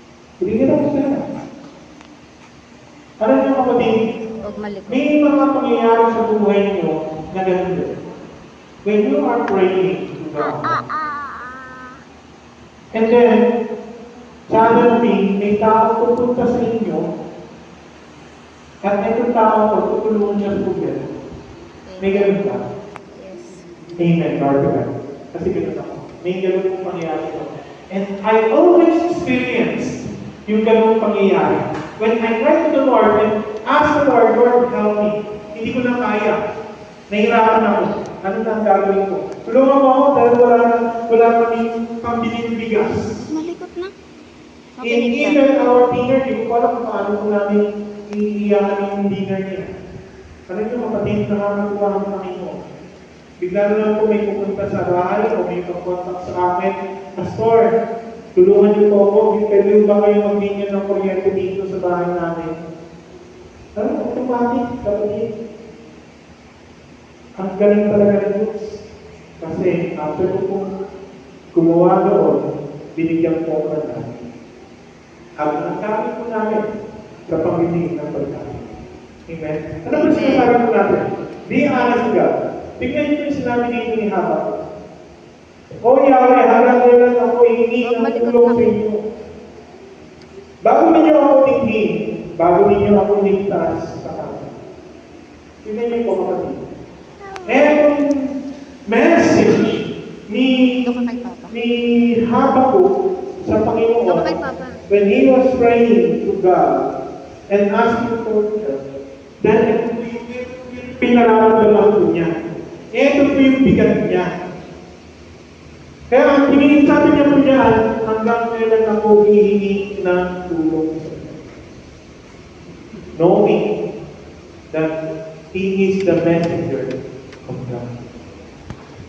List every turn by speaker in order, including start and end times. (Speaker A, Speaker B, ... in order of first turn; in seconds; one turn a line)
Speaker A: 0.4-1.2
Speaker A: 3.2-4.0
Speaker B: 4.4-5.1
Speaker A: 4.9-7.9
Speaker A: 8.8-10.8
Speaker B: 10.4-12.0
Speaker A: 12.9-13.5
Speaker A: 14.5-17.1
Speaker A: 18.8-21.1
Speaker B: 21.9-22.4
Speaker A: 22.0-22.6
Speaker B: 23.1-23.7
Speaker A: 24.0-36.4
Speaker A: 37.1-43.3
Speaker B: 43.3-43.9
Speaker B: 44.8-45.4
Speaker A: 44.8-49.7
Speaker A: 50.5-52.6
Speaker A: 53.4-57.8
Speaker A: 58.4-62.5
Speaker A: 63.8-65.3
Speaker A: 67.4-68.8
Speaker A: 69.4-70.7
Speaker A: 71.5-72.5
Speaker A: 73.0-74.2
Speaker A: 75.4-76.7
Speaker A: 77.3-78.7
Speaker A: 79.3-84.6
Speaker B: 79.9-80.5
Speaker A: 85.8-89.0
Speaker B: 87.8-88.8
Speaker A: 90.6-94.5
Speaker A: 95.6-96.6
Speaker A: 97.5-98.3
Speaker A: 98.9-100.8
Speaker B: 100.8-101.6
Speaker A: 101.5-104.3
Speaker B: 104.1-104.8
Speaker A: 104.9-106.8
Speaker A: 107.5-108.8
Speaker A: 109.4-112.3
Speaker A: 112.9-114.4
Speaker A: 116.1-121.4
Speaker A: 123.2-123.7
Speaker A: 125.5-127.9